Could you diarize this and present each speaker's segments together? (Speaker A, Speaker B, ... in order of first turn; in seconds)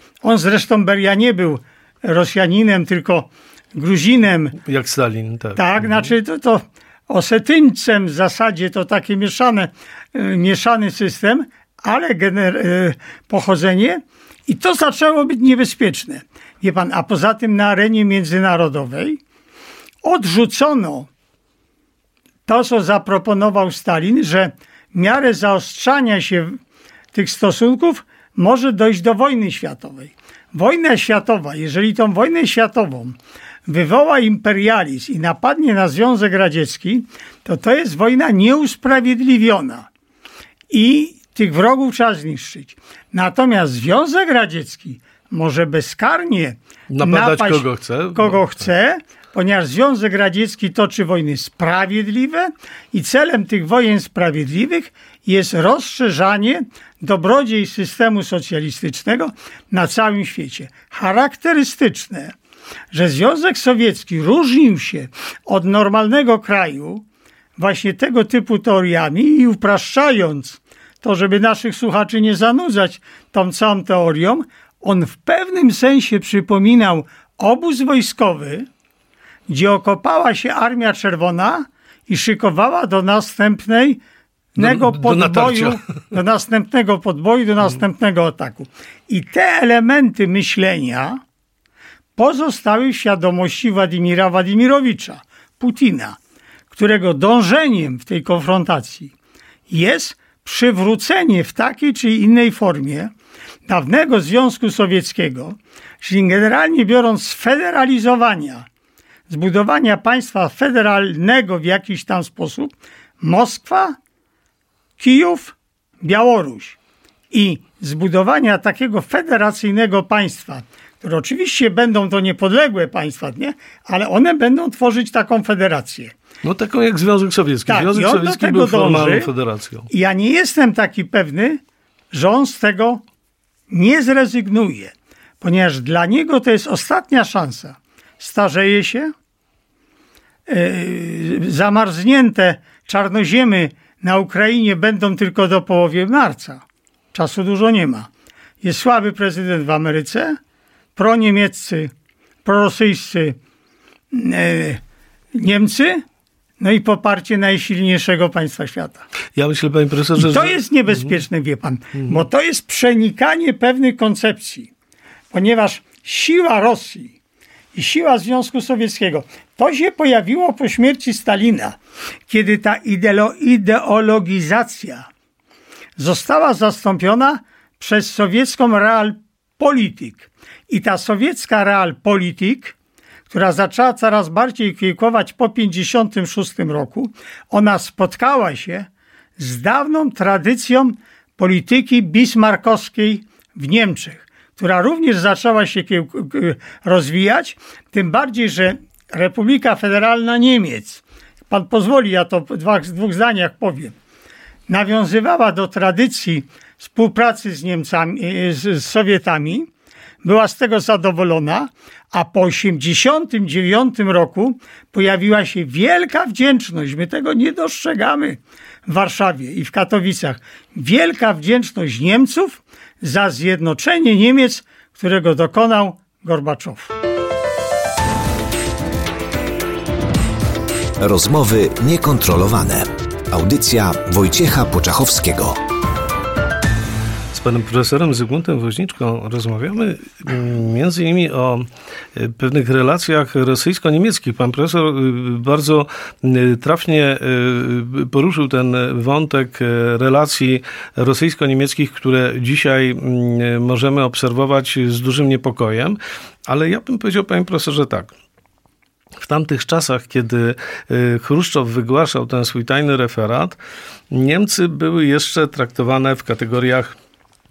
Speaker A: 0.2-4.6, 5.6-19.2, 20.0-21.1, 22.5-26.6, 27.1-39.9, 40.7-62.3, 62.9-67.0, 67.6-78.7, 79.5-84.0, 84.5-91.2, 92.2-96.2, 96.7-99.1, 99.7-103.1, 103.7-108.7, 109.3-114.0, 115.0-116.8, 117.3-126.1, 127.7-129.3, 129.9-131.6, 132.1-133.0, 133.7-139.1, 140.5-146.6, 147.1-148.1, 148.6-150.4, 151.0-151.9, 152.4-153.4, 154.1-154.8, 155.3-156.1, 156.6-159.1, 160.2-164.7, 165.3-167.1, 167.8-175.1, 176.0-182.8, 183.3-188.9, 189.4-203.9, 204.7-209.7, 210.2-226.9
Speaker B: 4.6-6.1, 46.9-48.7, 84.6-85.8, 126.4-129.9, 159.3-161.2, 162.0-162.2, 237.3-258.1, 259.2-263.6, 264.1-267.0
Speaker C: 231.0-235.6